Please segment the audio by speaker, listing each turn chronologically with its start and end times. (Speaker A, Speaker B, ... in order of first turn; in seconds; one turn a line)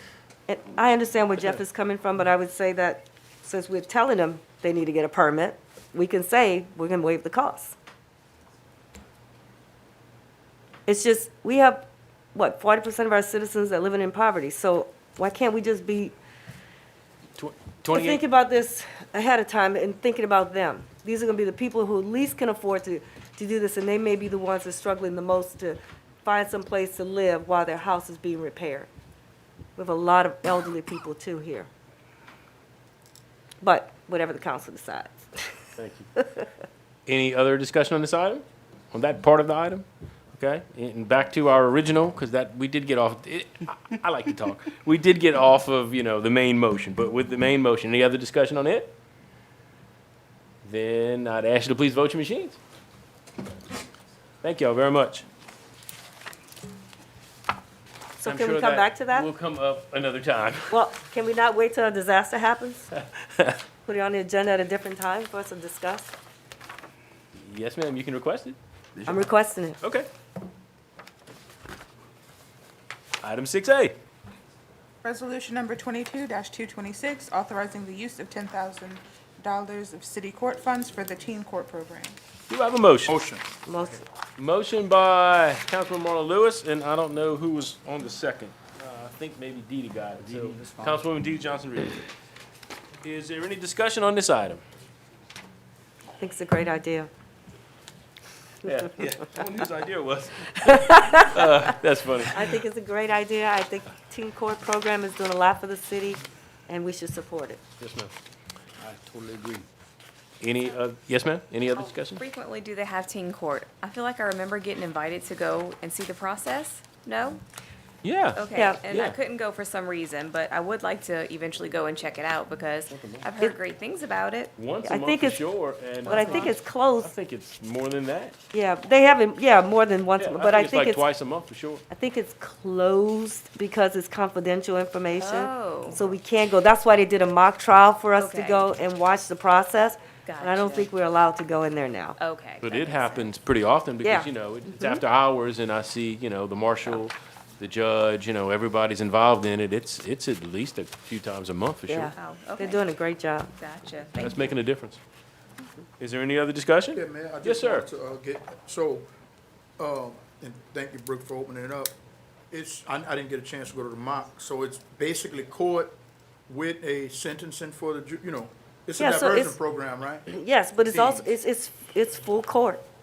Speaker A: 0.5-7.7
Speaker A: 10.9-16.1
Speaker B: 17.4-18.2
Speaker A: 17.9-28.9
Speaker A: 29.8-31.7
Speaker A: 33.6-35.6
Speaker B: 35.8-36.1
Speaker A: 36.1-36.5
Speaker B: 37.1-48.9
Speaker B: 50.6-52.6
Speaker B: 54.4-55.2
Speaker A: 58.2-59.3
Speaker B: 58.2-60.8
Speaker A: 60.7-62.9
Speaker B: 62.9-63.6
Speaker A: 63.8-66.1
Speaker B: 67.3-69.3
Speaker A: 69.1-69.8
Speaker B: 69.8-70.1
Speaker B: 73.2-74.0
Speaker C: 75.0-82.2
Speaker B: 82.5-83.2
Speaker D: 83.0-83.5
Speaker A: 83.6-84.0
Speaker B: 84.4-92.0
Speaker D: 90.3-91.0
Speaker B: 93.0-94.6
Speaker A: 96.2-97.1
Speaker B: 98.6-102.6
Speaker A: 100.8-101.6
Speaker A: 102.3-107.6
Speaker B: 107.8-108.1
Speaker B: 108.8-109.6
Speaker B: 110.4-112.2
Speaker E: 111.8-117.4
Speaker B: 118.0-119.2
Speaker E: 118.3-124.5
Speaker A: 118.5-118.8
Speaker B: 122.9-123.3
Speaker B: 124.5-128.3
Speaker A: 124.8-125.4
Speaker E: 126.0-126.5
Speaker A: 126.1-127.1
Speaker A: 128.5-131.0
Speaker B: 130.2-131.8
Speaker A: 131.9-142.2
Speaker E: 135.2-136.0
Speaker E: 138.2-138.7
Speaker E: 140.2-140.9
Speaker E: 142.2-143.3
Speaker B: 142.6-152.1
Speaker A: 144.0-144.9
Speaker A: 151.9-153.5
Speaker E: 152.2-153.0
Speaker E: 153.6-154.5
Speaker B: 154.2-155.0
Speaker B: 156.0-157.9
Speaker D: 156.9-159.1
Speaker D: 159.8-161.9
Speaker D: 162.5-166.0
Speaker D: 166.5-170.2
Speaker A: 169.0-169.6
Speaker A: 170.3-172.8
Speaker D: 170.9-171.2